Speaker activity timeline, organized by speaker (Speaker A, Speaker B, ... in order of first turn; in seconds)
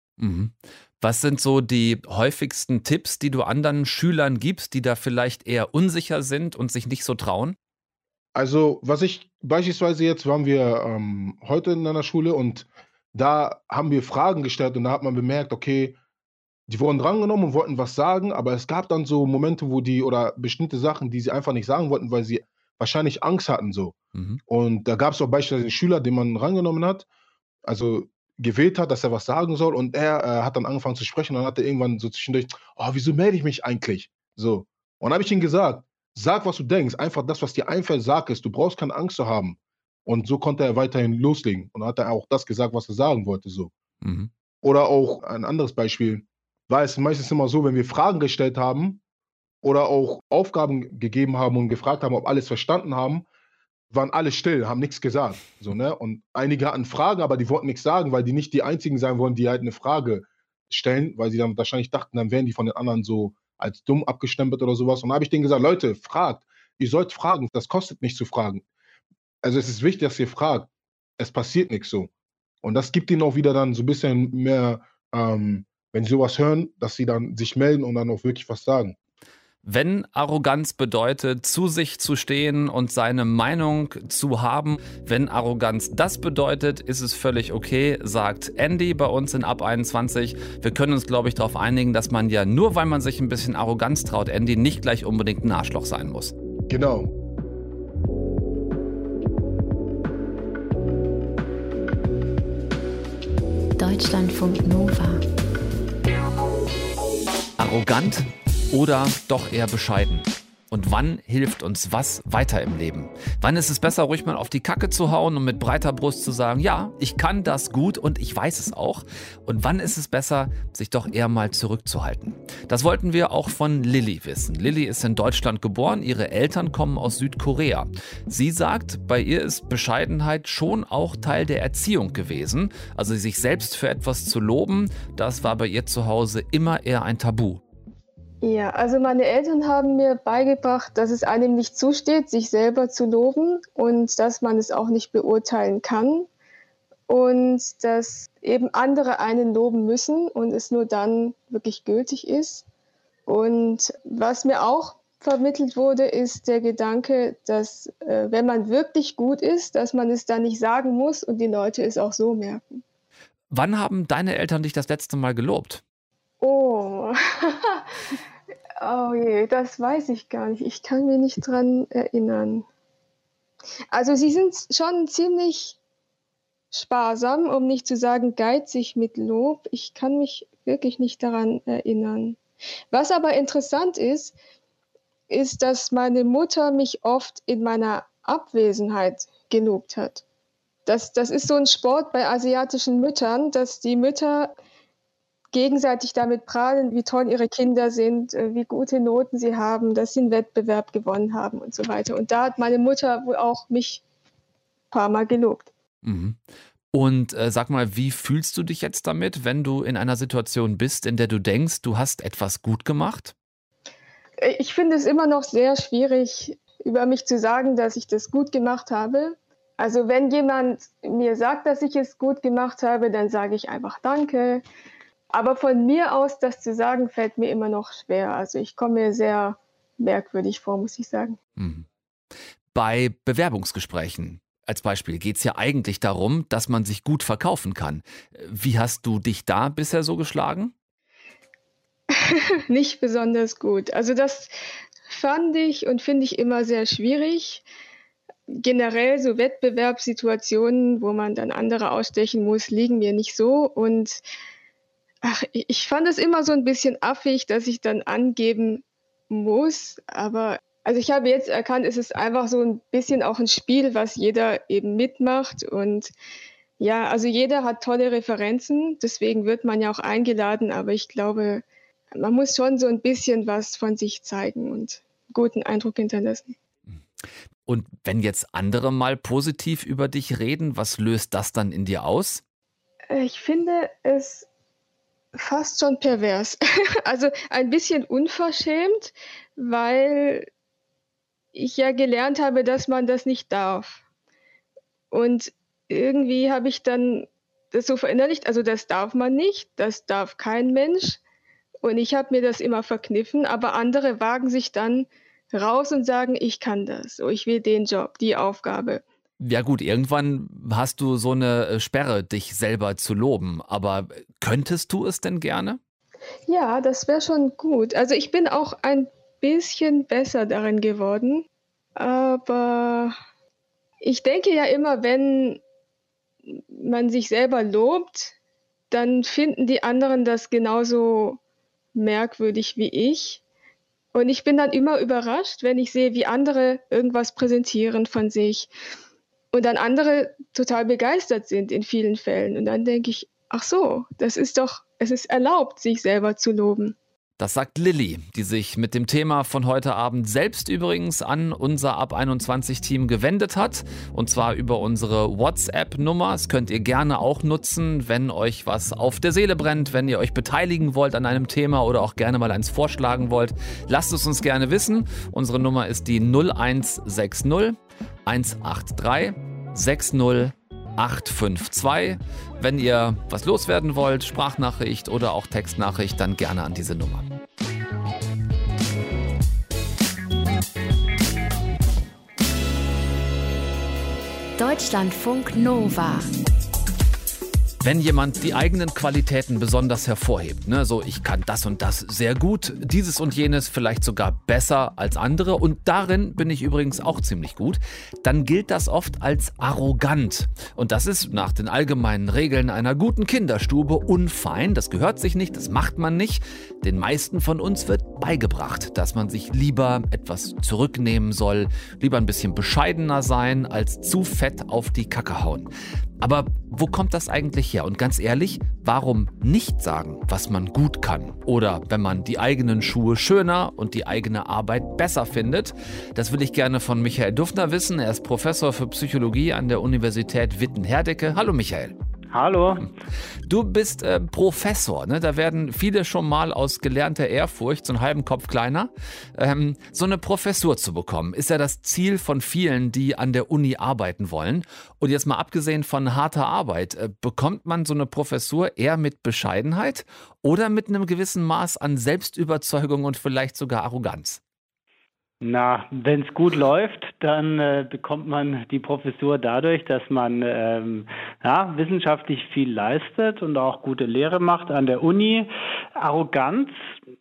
Speaker A: 0.2-7.6, 24.1-24.4, 44.0-44.3, 79.6-96.3, 107.6-137.6, 163.5-165.8, 206.0-213.3, 231.6-231.9, 232.7-240.7, 277.7-282.4, 309.4-315.8, 347.4-377.3, 387.8-415.7, 416.2-431.9, 433.5-454.4
Speaker B: 8.3-16.0, 16.7-24.0, 24.5-27.1, 27.7-43.7, 44.6-49.0, 49.6-53.2, 53.9-68.6, 69.4-72.1, 72.6-79.0, 96.7-97.1
Speaker C: 103.8-105.2, 384.6-386.3
Speaker D: 138.4-146.3, 147.1-152.7, 153.3-162.8, 166.4-167.9, 168.8-172.7, 173.9-175.8, 176.7-182.4, 182.9-184.3, 185.3-190.2, 190.9-194.6, 195.5-204.0, 204.9-205.7, 214.4-224.6, 225.3-231.4, 242.1-244.5, 245.1-247.6, 248.5-254.2, 255.2-266.1, 266.8-276.6, 283.1-284.5, 285.4-290.5, 291.5-294.0, 295.1-301.2, 301.8-309.0, 316.5-323.1, 324.0-325.6, 326.5-328.4, 328.9-331.4, 331.9-333.4, 334.1-338.7, 339.5-347.0
Speaker E: 432.3-432.9, 455.4-466.7